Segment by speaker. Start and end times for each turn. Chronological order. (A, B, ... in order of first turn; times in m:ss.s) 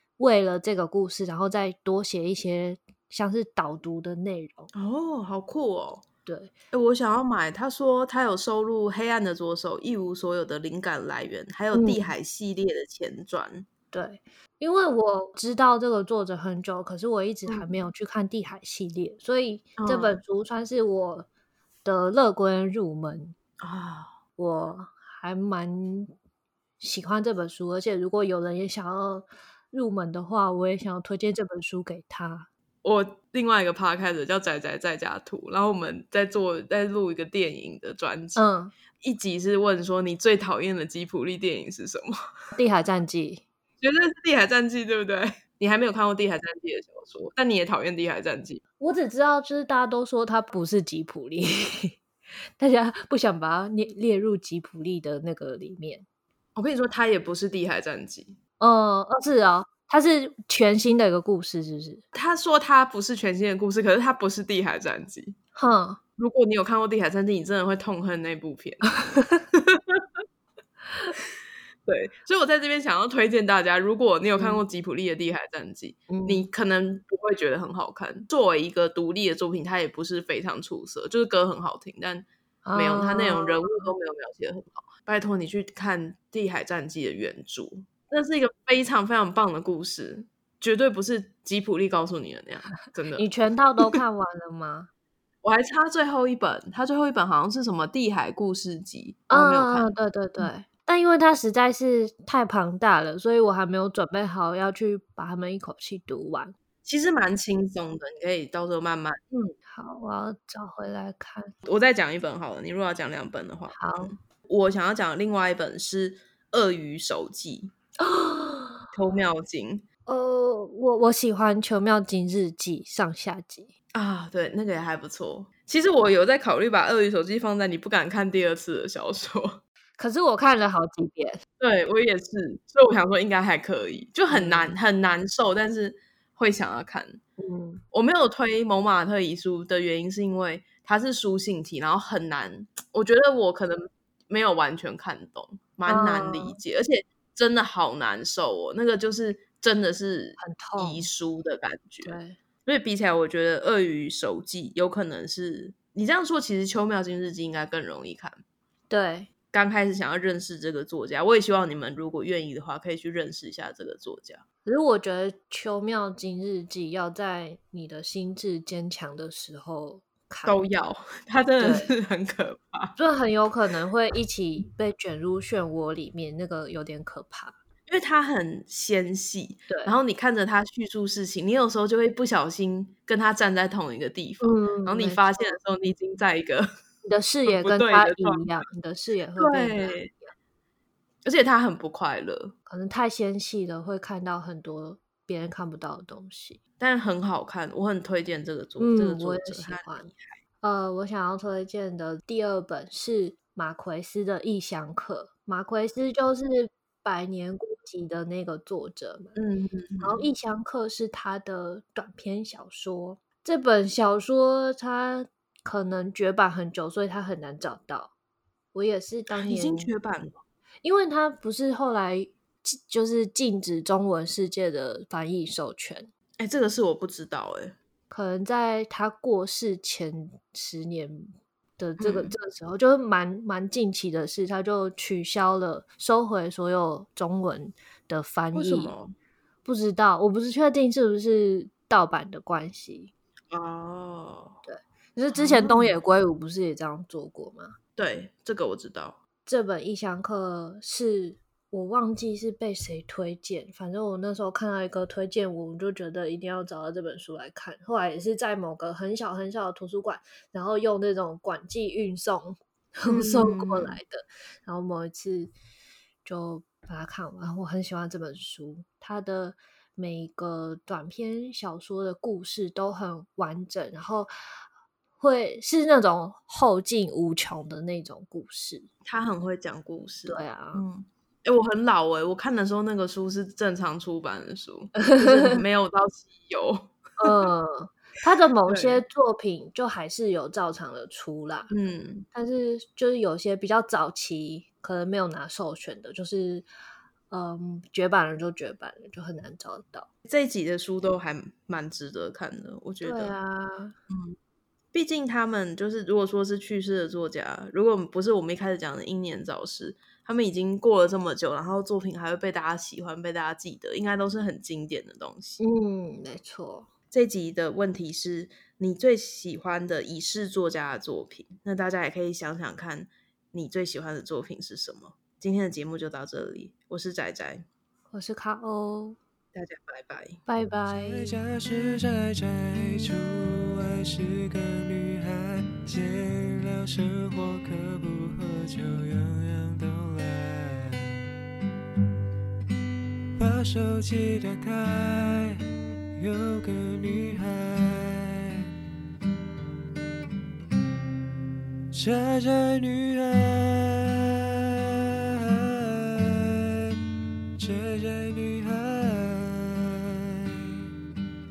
0:00.2-0:04.7 A
0:04.7-0:06.0 B
0:06.2-0:06.5 A
0:06.7-0:13.6 B
0:11.7-0:12.1 A
0:13.9-0:21.3 A
0:17.5-0:17.7 B
0:19.8-0:20.2 B
0:21.8-0:23.3 A
0:23.6-0:24.1 B
0:24.4-0:26.1 A
0:26.8-0:32.5 A
0:32.8-0:38.4 B
0:38.4-0:38.7 A
0:39.0-0:42.2 B
0:42.5-0:43.4 A
0:43.8-0:48.6 B
0:48.8-0:52.0 A
0:52.6-0:56.0 A
0:56.5-0:58.4 B
0:58.6-1:02.0 A
1:02.1-1:05.3 B
1:05.5-1:06.0 A
1:06.2-1:08.9 B
1:09.0-1:09.4 A
1:09.5-1:10.0 B
1:11.8-1:33.2 B
1:14.4-1:14.6 A
1:16.1-1:16.5 A
1:22.6-1:23.9 A
1:33.2-1:34.9 A
1:35.4-1:40.5 B
1:39.3-1:46.5 A
1:46.8-1:49.2 B
1:49.3-1:51.5 A
1:51.6-1:57.7 B
1:53.7-1:54.1 A
1:58.0-1:58.8 A
1:58.9-1:59.8 B
2:00.0-2:03.7 A
2:03.9-2:09.6 B
2:10.0-2:11.4 A
2:11.6-2:17.2 B
2:14.3-2:14.7 A
2:17.4-2:17.8 A
2:17.9-2:38.4 B
2:25.9-2:26.6 A
2:30.4-2:31.1 A
2:32.0-2:32.4 A
2:38.9-2:39.3 A
2:39.5-2:44.4 B
2:44.6-2:50.7 A
2:50.4-2:53.0 B
2:51.6-2:51.9 A
2:53.0-2:57.6 A
2:57.9-3:06.7 B
2:59.7-2:59.9 A
3:04.4-3:05.6 A
3:07.0-3:10.3 A
3:07.5-3:08.6 B
3:09.4-3:10.1 B
3:11.2-3:12.5 B
3:12.7-3:16.6 A
3:16.8-3:20.4 B
3:18.8-3:20.1 A
3:20.6-3:29.4 A
3:29.4-3:30.2 B
3:30.0-3:38.1 A
3:38.7-3:39.9 A
3:39.3-3:40.4 B
3:40.8-3:46.1 A
3:46.4-3:47.8 B
3:48.1-3:58.9 A
3:52.0-3:52.3 B
3:58.5-3:59.1 B
3:59.6-4:03.1 A
4:03.5-4:04.6 B
4:04.6-4:07.7 A
4:05.3-4:06.0 B
4:08.0-4:09.2 B
4:09.4-4:25.5 A
4:23.1-4:24.0 B
4:26.2-4:34.3 A
4:35.2-4:38.9 A
4:39.0-4:47.4 B
4:40.3-4:40.8 A
4:45.0-4:45.6 A
4:47.2-4:51.7 A
4:48.7-4:49.0 B
4:51.7-4:52.2 B
4:52.3-4:56.7 A
4:57.3-5:00.1 A
5:00.2-5:03.3 B
5:03.0-5:03.9 A
5:04.1-5:04.4 B
5:04.9-5:15.6 B
5:15.6-5:16.9 A
5:17.1-5:27.7 B
5:28.1-5:29.2 A
5:29.5-5:30.4 B
5:30.5-5:31.4 A
5:30.9-5:41.3 C
5:43.3-5:48.7 C
5:51.9-5:57.0 C
5:57.6-6:00.9 C